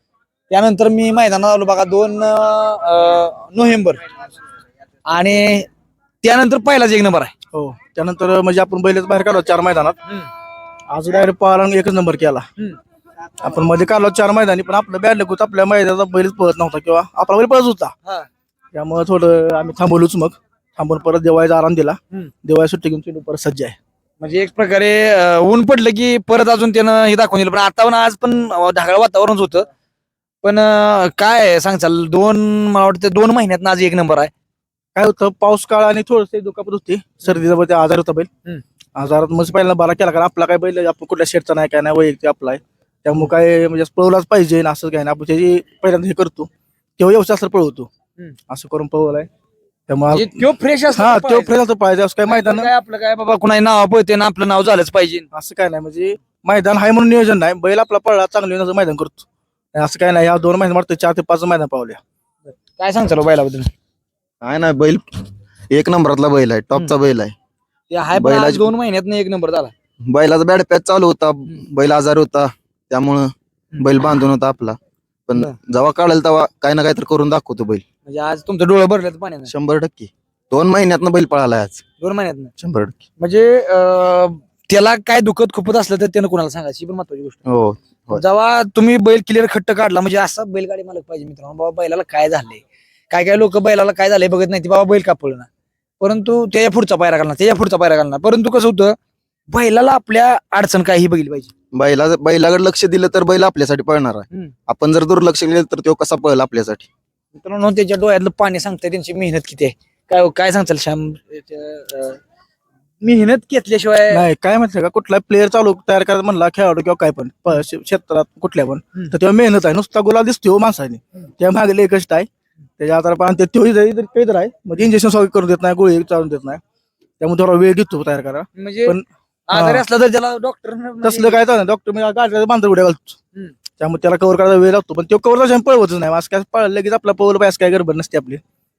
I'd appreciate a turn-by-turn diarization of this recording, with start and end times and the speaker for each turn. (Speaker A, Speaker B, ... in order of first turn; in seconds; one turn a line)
Speaker A: 0.5-4.0
Speaker A: 5.1-5.7
Speaker A: 6.2-7.3
Speaker B: 7.5-10.0
Speaker B: 10.9-12.5
Speaker B: 13.4-17.9
Speaker B: 18.7-23.8
Speaker A: 24.2-29.7
Speaker A: 30.4-34.3
Speaker B: 35.0-38.3
Speaker B: 39.0-47.9
Speaker B: 48.5-49.3
Speaker B: 49.9-52.7
Speaker A: 50.1-51.5
Speaker A: 52.3-55.3
Speaker B: 55.3-62.0
Speaker A: 62.5-63.7
Speaker C: 64.4-67.3
Speaker A: 67.9-69.7
Speaker C: 68.1-68.7
Speaker C: 70.0-77.8
Speaker A: 78.1-79.5
Speaker C: 79.5-81.8
Speaker A: 82.0-82.5
Speaker C: 82.6-83.0
Speaker A: 83.2-87.4
Speaker C: 87.5-88.2
Speaker A: 88.1-95.5
Speaker A: 96.0-99.0
Speaker A: 99.5-101.5
Speaker C: 101.7-106.9
Speaker A: 107.3-112.2
Speaker A: 113.0-114.2
Speaker B: 114.1-126.6
Speaker B: 127.2-129.8
Speaker A: 128.6-129.0
Speaker A: 129.5-131.4
Speaker B: 131.0-133.2
Speaker B: 133.8-138.4